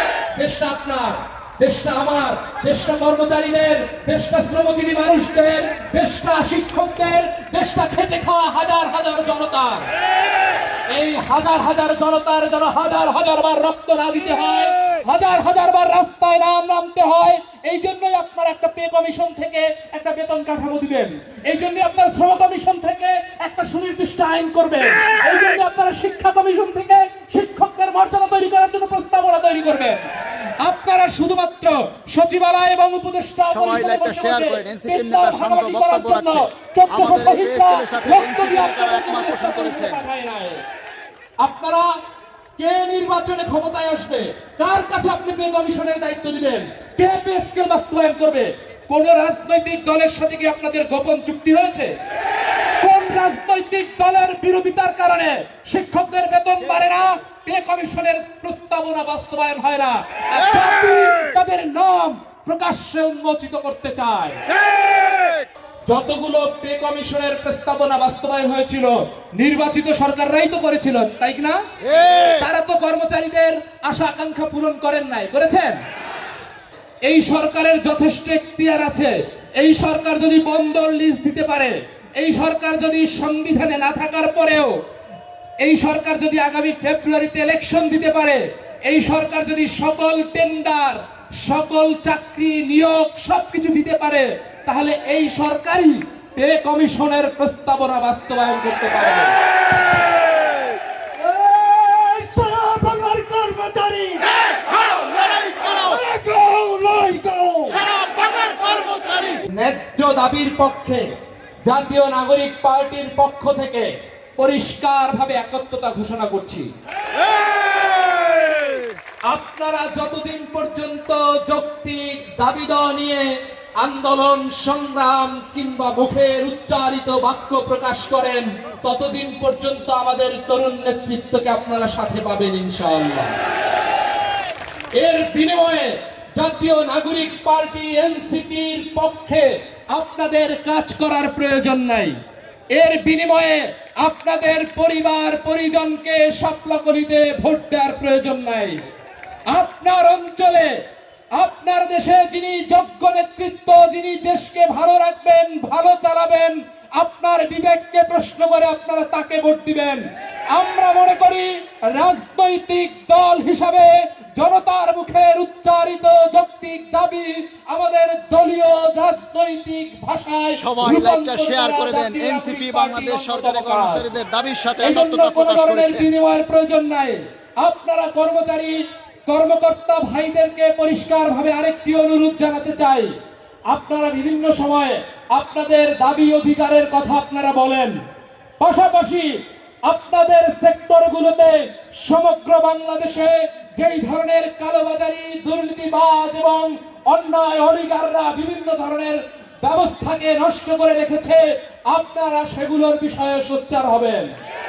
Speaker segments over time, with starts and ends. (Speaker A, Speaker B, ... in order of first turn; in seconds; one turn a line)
Speaker A: 0.3-9.9
Speaker A: 10.9-40.6
Speaker B: 33.5-40.0
Speaker A: 41.4-42.0
Speaker A: 42.6-52.0
Speaker A: 52.8-64.4
Speaker A: 65.9-71.7
Speaker A: 72.2-75.8
Speaker A: 77.0-84.8
Speaker A: 85.6-99.4
Speaker C: 101.2-104.3
Speaker C: 105.4-108.0
Speaker B: 108.1-109.4
Speaker A: 109.5-111.1
Speaker A: 111.7-116.7
Speaker A: 119.3-133.3
Speaker A: 135.0-142.2
Speaker A: 142.7-148.9
Speaker A: 149.5-150.8
Speaker A: 151.3-174.1
Speaker B: 170.6-176.1
Speaker A: 174.8-183.1
Speaker A: 183.7-188.0
Speaker A: 188.6-204.3